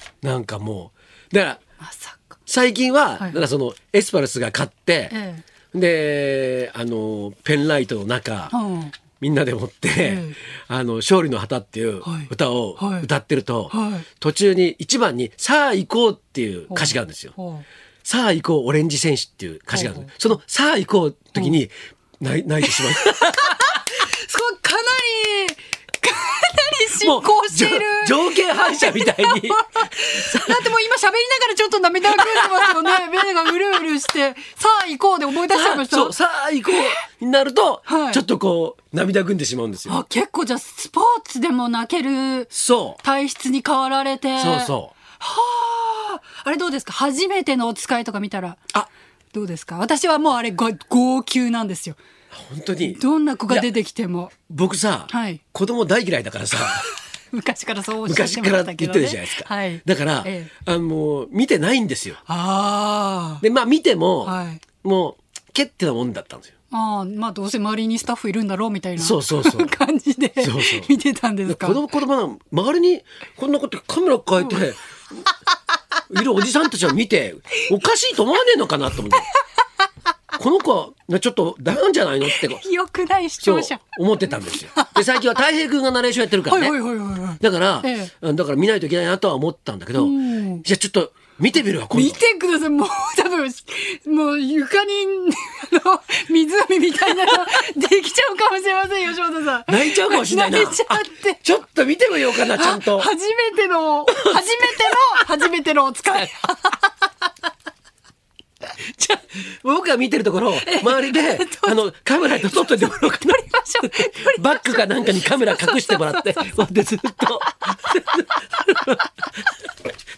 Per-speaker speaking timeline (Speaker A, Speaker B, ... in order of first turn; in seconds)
Speaker A: 0.2-1.6, 2.5-5.1, 5.7-8.5, 9.2-17.3, 18.0-23.8, 27.0-30.7, 32.1-33.0, 35.4-40.0, 42.5-43.0, 44.4-44.9, 52.3-53.7, 54.5-56.9, 58.1-62.2, 63.4-66.5, 69.0-69.7, 70.4-70.9, 71.5-75.2, 76.1-79.3, 80.4-82.6, 83.4-86.8, 87.4-92.2, 99.7-103.1, 104.1-105.2, 109.0-119.6
Speaker B: 1.8-2.4, 5.1-5.4, 8.5-9.0, 10.0-10.4, 12.0-13.1, 13.7-14.1, 16.7-17.6, 19.7-20.1, 22.6-36.1, 37.9-38.2, 39.9-42.5, 43.0-48.6, 49.3-52.0, 52.8-54.3, 55.1-55.4, 56.7-60.5, 62.3-63.4, 64.2-64.6, 66.7-71.8, 82.2-85.0, 86.5-88.1, 90.0-90.6, 91.9-101.4, 102.4-106.9, 110.6-111.8, 112.3-116.6